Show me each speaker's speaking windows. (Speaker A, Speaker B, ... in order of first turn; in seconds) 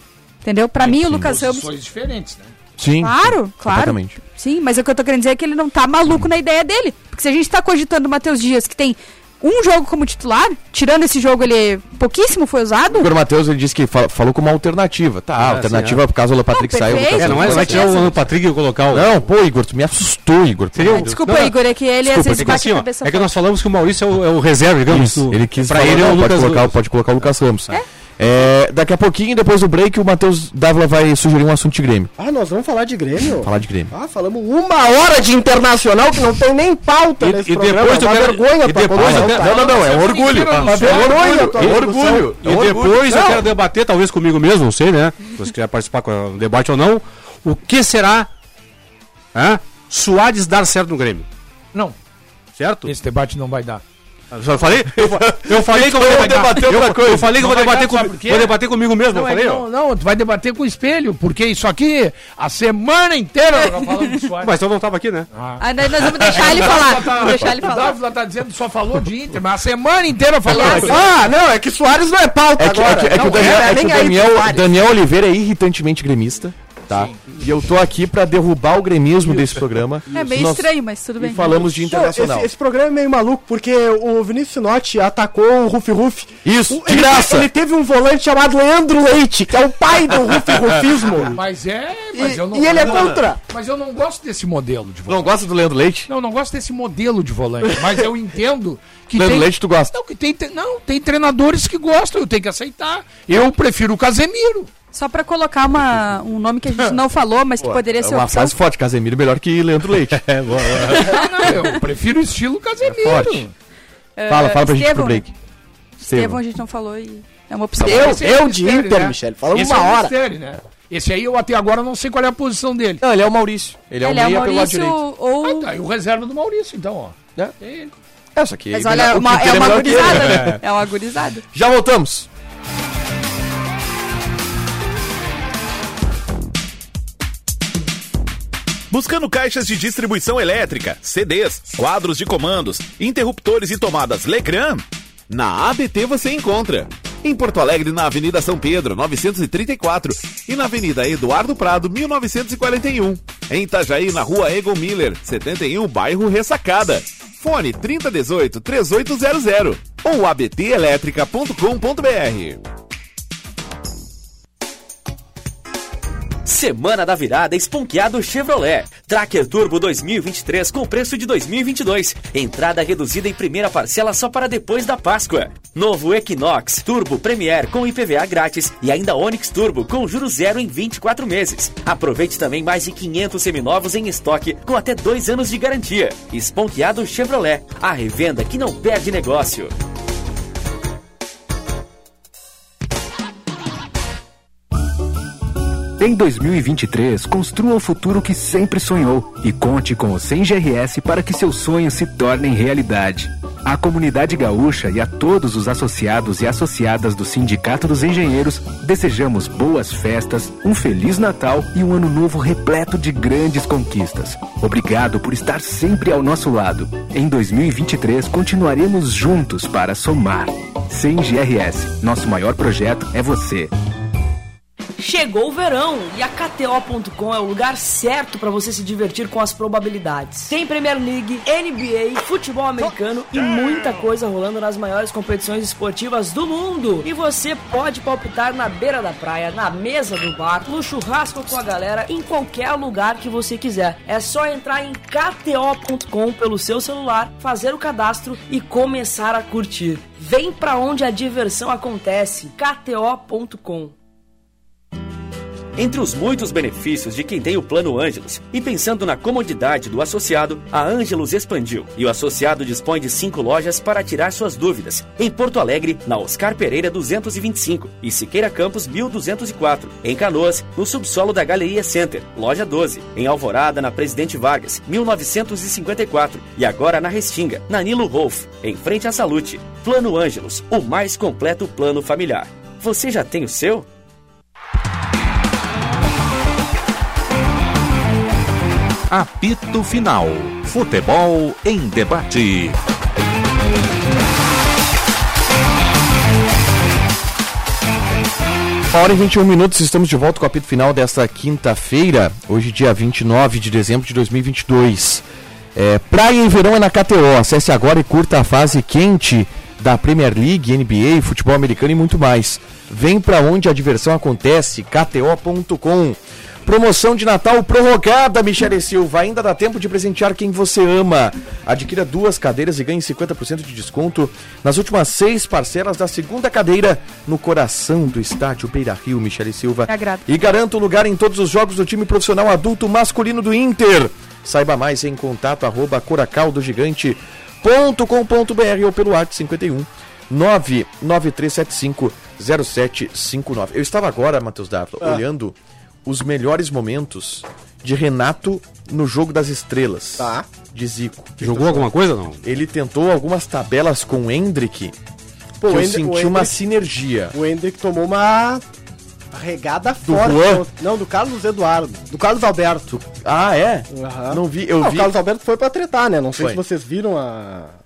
Speaker A: 0.5-1.7, 3.0-13.2, 16.5-18.2, 20.9-23.3, 63.5-64.1, 65.6-68.0, 70.5-71.1, 80.1-81.8, 104.9-108.6, 110.9-111.5, 114.2-115.2, 116.1-118.2, 124.0-125.7, 128.7-131.4, 329.9-330.3
Speaker B: 0.8-2.5, 39.4-41.4, 52.9-53.8, 57.4-64.5, 65.3-71.0, 73.2-73.7, 91.3-95.3, 96.1-104.7, 110.9-113.5, 117.8-123.0, 125.4-127.9
Speaker C: 2.8-4.2, 12.9-18.3, 18.9-21.2, 24.9-32.1, 33.4-33.9, 38.7-43.4, 54.9-57.4, 72.6-82.5, 86.5-87.5, 92.9-93.1, 95.1-96.1, 99.1-99.9, 107.6-110.2, 112.8-113.5, 114.3-115.3, 116.0-116.4, 123.0-125.0, 128.4-130.6, 131.5-132.3, 298.9-305.2, 305.8-351.9, 352.4-354.9, 355.7-357.4, 360.0-360.7, 363.0-365.1
Speaker D: 15.4-16.0, 17.1-19.2, 20.8-26.8, 37.2-39.5, 41.5-48.3, 49.3-51.3, 52.6-52.9, 54.3-59.7, 64.4-65.3, 110.2-111.2, 351.4-352.4
Speaker E: 32.2-39.9, 40.5-42.4, 43.1-43.4, 70.5-74.7, 81.9-91.4, 92.1-93.4, 117.8-120.1, 350.2-350.5, 355.6-356.6, 357.3-358.6, 359.3-363.0, 363.9-367.8
Speaker F: 138.9-162.6
Speaker G: 166.5-189.7, 255.8-283.9
Speaker H: 196.0-223.7
Speaker I: 225.0-253.9
Speaker J: 289.1-292.8